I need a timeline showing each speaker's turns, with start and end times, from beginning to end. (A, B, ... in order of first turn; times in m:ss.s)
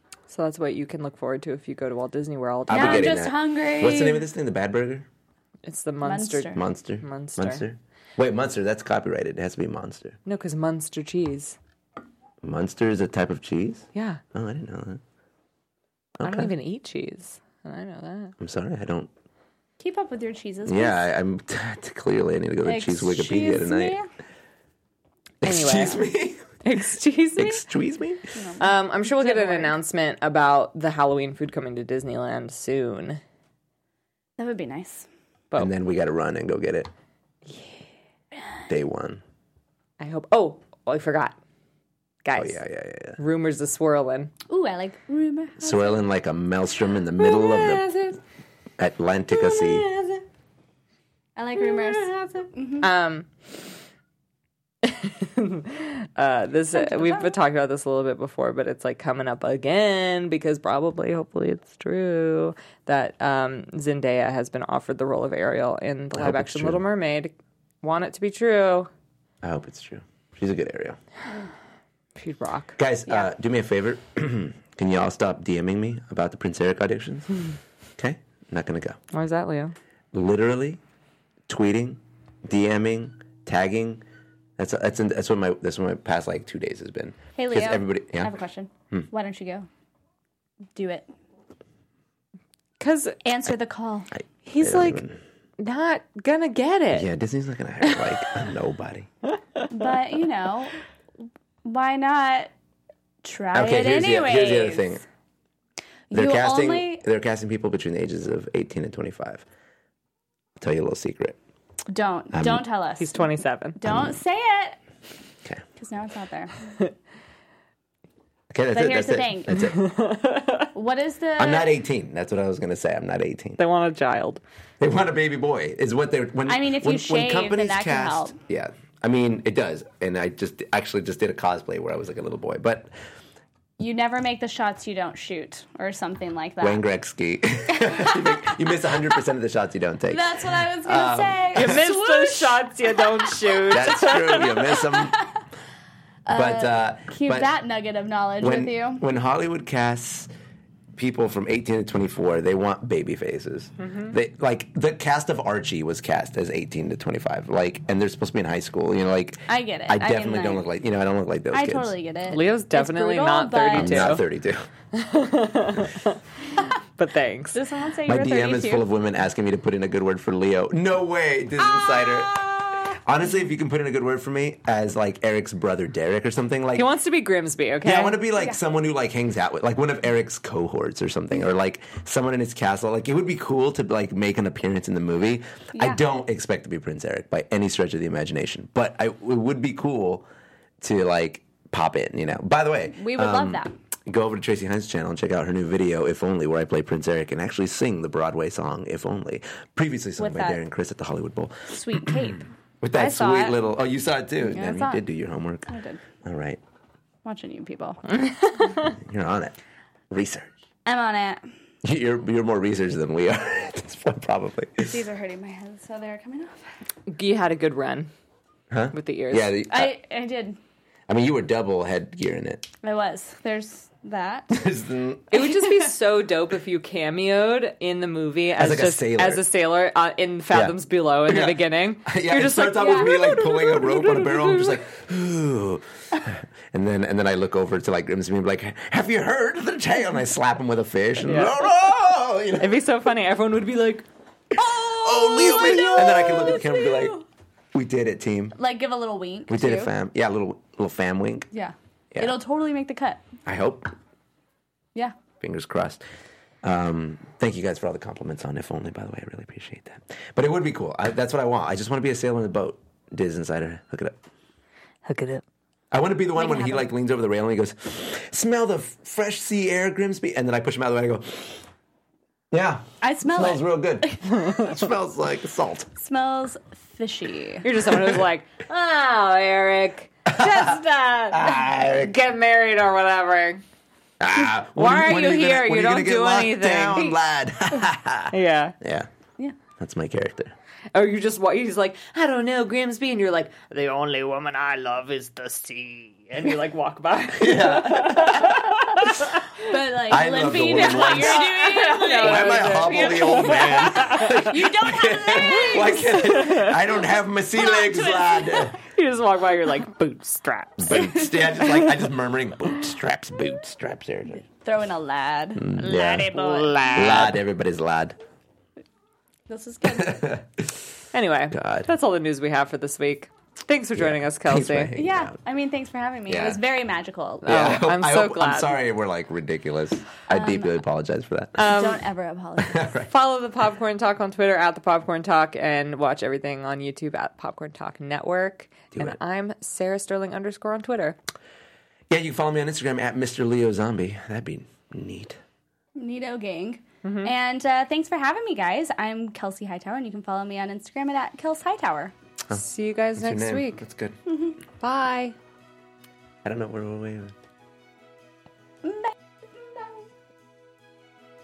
0:00.3-0:03.2 A
0:02.7-0:05.1 B
0:02.7-0:04.3 C
0:05.7-0:07.6 A
0:06.0-0:06.6 C
0:06.5-0:10.2 B
0:10.2-0:11.6 A
0:12.4-0:15.0 B
0:13.9-0:14.2 A
0:16.2-0:16.5 B
0:16.2-0:18.4 A
0:18.4-0:19.1 B
0:19.8-0:21.0 C
0:20.6-0:24.0 B
0:22.6-0:24.1 C
0:25.4-0:26.4 B
0:25.4-0:26.1 A
0:26.6-0:27.6 A
0:27.4-0:28.3 B
0:28.3-0:29.8 C
0:28.6-0:33.2 A
0:34.4-0:35.1 C
0:35.6-0:36.9 B
0:37.5-0:37.8 A
0:38.7-0:39.2 B
0:40.0-0:41.4 A
0:42.2-0:42.6 A
0:42.3-0:43.2 B
0:43.2-0:44.3 A
0:44.5-0:46.0 C
0:45.6-0:47.9 B
0:47.2-0:48.2 A
0:48.8-0:49.9 B
0:49.4-0:50.2 A
0:51.4-0:52.9 C
0:51.6-0:52.2 A
0:52.8-0:53.3 A
0:54.8-1:08.9 A
0:56.8-0:57.3 C
1:06.1-1:06.8 B
1:09.4-1:11.0 B
1:12.2-1:12.8 A
1:12.8-1:17.4 B
1:18.0-1:19.0 B
1:19.1-1:19.8 A
1:20.1-1:20.8 B
1:21.5-1:24.0 B
1:24.6-1:28.4 B
1:27.4-1:29.7 C
1:30.8-1:31.1 C
1:32.8-1:33.2 A
1:33.2-1:34.1 C
1:34.2-1:35.2 B
1:34.5-1:35.0 A
1:35.6-1:37.1 A
1:36.9-1:39.1 B
1:39.7-1:40.7 C
1:41.6-1:42.5 C
1:43.2-1:45.0 C
1:43.5-1:45.0 B
1:46.1-1:47.0 C
1:46.1-1:49.4 B
1:50.6-1:51.4 B
1:51.9-1:54.8 C
1:52.3-1:52.7 B
1:53.0-1:53.8 A
1:53.8-1:54.2 B
1:55.8-1:56.5 C
1:58.5-1:59.8 B
1:58.7-1:59.7 C
1:59.6-2:00.7 A
2:00.7-2:01.7 C
2:01.4-2:03.6 B
2:03.6-2:04.4 A
2:04.8-2:12.9 B
2:06.5-2:08.3 C
2:13.8-2:16.8 C
2:16.6-2:21.9 B
2:17.7-2:18.5 C
2:20.1-2:22.6 C
2:21.5-2:24.6 A
2:23.6-2:23.9 C
2:23.7-2:25.2 B
2:24.6-2:25.2 C
2:26.3-2:29.0 C
2:26.3-2:27.5 B
2:28.4-2:30.3 B
2:31.0-2:41.9 B
2:33.8-2:34.2 A
2:39.5-2:40.7 C
2:41.5-2:44.2 C
2:42.3-2:44.2 A
2:43.7-2:44.7 B
2:44.9-2:47.6 A
2:47.5-2:48.8 C
2:48.1-2:52.5 B
2:51.6-2:53.0 C
2:53.0-2:56.9 B
2:56.8-2:58.2 A
2:57.8-3:10.3 B
3:10.8-3:26.6 B
3:12.9-3:13.7 C
3:20.2-3:20.6 C
3:21.7-3:23.6 C
3:24.4-3:25.0 C
3:25.7-3:26.0 C
3:27.2-3:28.0 C
3:28.1-3:28.9 A
3:28.9-3:29.6 B
3:30.1-3:30.5 B
3:30.9-3:31.4 C
3:31.8-3:35.0 B
3:34.8-3:36.7 C
3:37.1-3:38.1 A
3:38.7-3:40.0 B
3:38.9-3:39.6 A
3:39.7-3:40.6 C
3:41.1-3:42.7 B
3:42.8-3:44.6 C
3:44.5-3:45.3 B
3:45.3-3:54.7 A
3:48.6-3:49.4 B
3:50.5-4:02.8 B
3:52.8-3:53.4 C
4:01.2-4:01.7 A
4:02.6-4:04.1 A
4:04.6-4:07.2 B
4:04.6-4:07.2 C
4:07.7-4:08.6 B
4:08.6-4:09.9 C
4:09.5-4:11.5 B
4:11.5-4:13.2 C
4:13.5-4:13.9 B
4:15.4-4:16.0 B
4:16.6-4:24.2 B
4:25.1-4:25.4 A
4:25.9-4:31.6 B
4:26.4-4:26.9 C
4:32.5-4:35.9 B
4:33.0-4:34.8 C
4:36.0-4:37.7 C
4:37.6-4:43.6 A
4:40.3-4:42.2 B
4:44.2-4:49.1 B
4:44.7-4:47.2 A
4:48.3-4:48.8 A
4:49.8-4:50.6 B
4:51.0-4:59.4 A
4:57.4-4:58.7 B
4:59.6-5:06.4 C
5:00.1-5:08.8 B
5:00.7-5:04.5 A
5:05.4-5:06.8 A
5:07.6-5:08.7 C
5:08.8-5:11.0 A
5:10.8-5:14.4 B
5:10.9-5:11.8 C
5:14.6-5:17.0 C
5:15.6-5:16.4 B
5:15.8-5:17.4 A
5:16.9-5:18.2 B
5:19.5-5:20.4 C
5:19.9-5:20.7 B
5:21.1-5:24.9 A
5:21.5-5:21.9 B
5:24.0-5:25.4 B
5:24.9-5:27.7 C
5:26.3-5:26.6 B
5:27.4-5:28.8 A
5:27.4-5:31.7 B
5:30.3-5:30.8 C
5:31.6-5:32.0 A
5:31.6-5:33.0 C
5:32.6-5:33.1 B
5:33.1-5:41.2 A
5:42.1-5:45.4 B
5:46.0-5:52.1 C
5:47.0-5:47.3 A
5:52.5-5:53.8 A
5:53.2-5:54.2 B
5:54.3-5:54.6 C
5:54.8-5:55.4 A
5:56.4-5:57.3 B
5:58.8-6:00.1 C